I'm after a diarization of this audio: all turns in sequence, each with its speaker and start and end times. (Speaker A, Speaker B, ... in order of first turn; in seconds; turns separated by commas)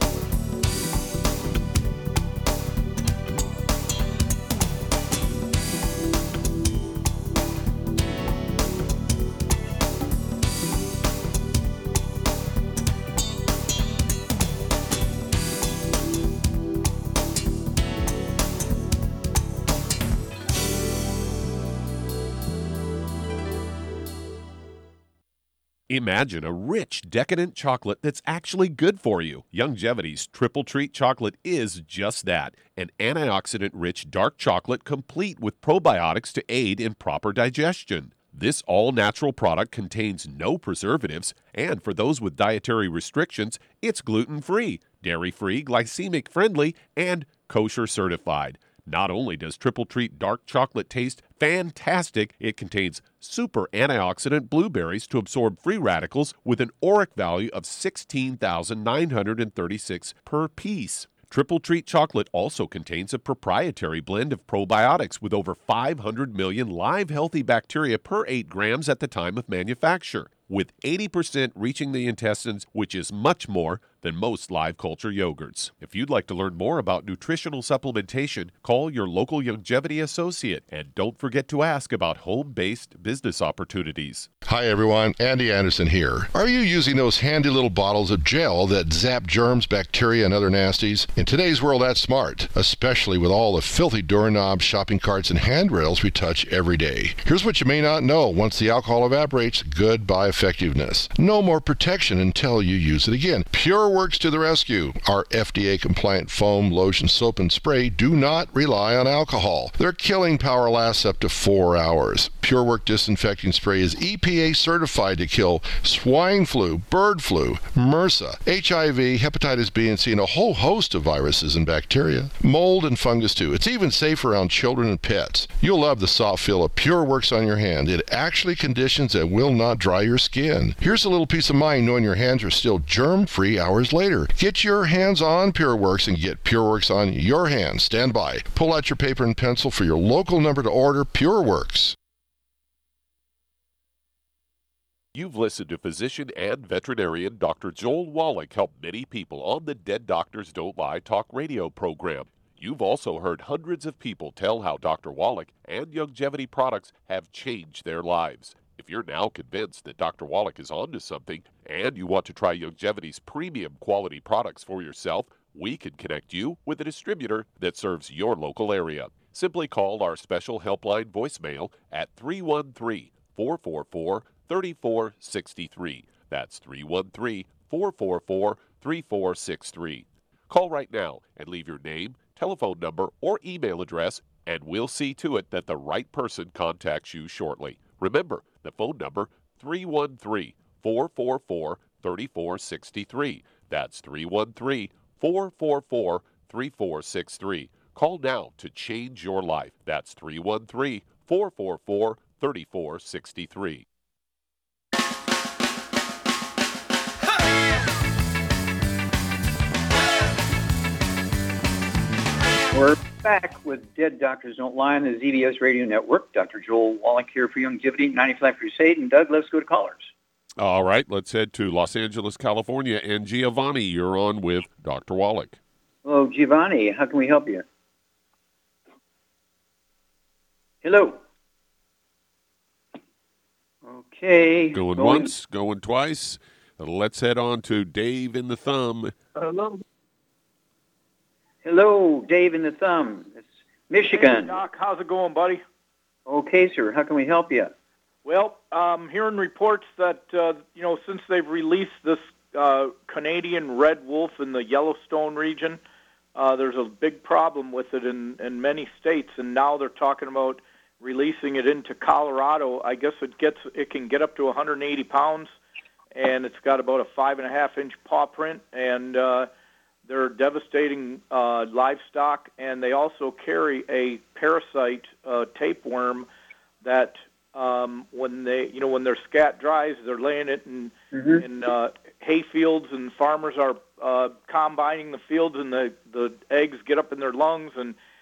Speaker A: 25.9-84.3, Speaker B: 84.5-141.9, Speaker A: 145.1-203.8, Speaker C: 212.7-220.1, Speaker A: 220.6-225.6, Speaker C: 226.0-227.6, Speaker C: 230.8-231.2, Speaker C: 233.8-235.3, Speaker A: 234.7-239.1, Speaker C: 241.6-244.6, Speaker D: 244.1-245.6, Speaker C: 246.3-247.7, Speaker D: 248.2-255.8, Speaker D: 256.3-265.5, Speaker D: 266.1-269.5, Speaker D: 270.0-276.2, Speaker D: 276.8-287.9, Speaker C: 281.1-281.4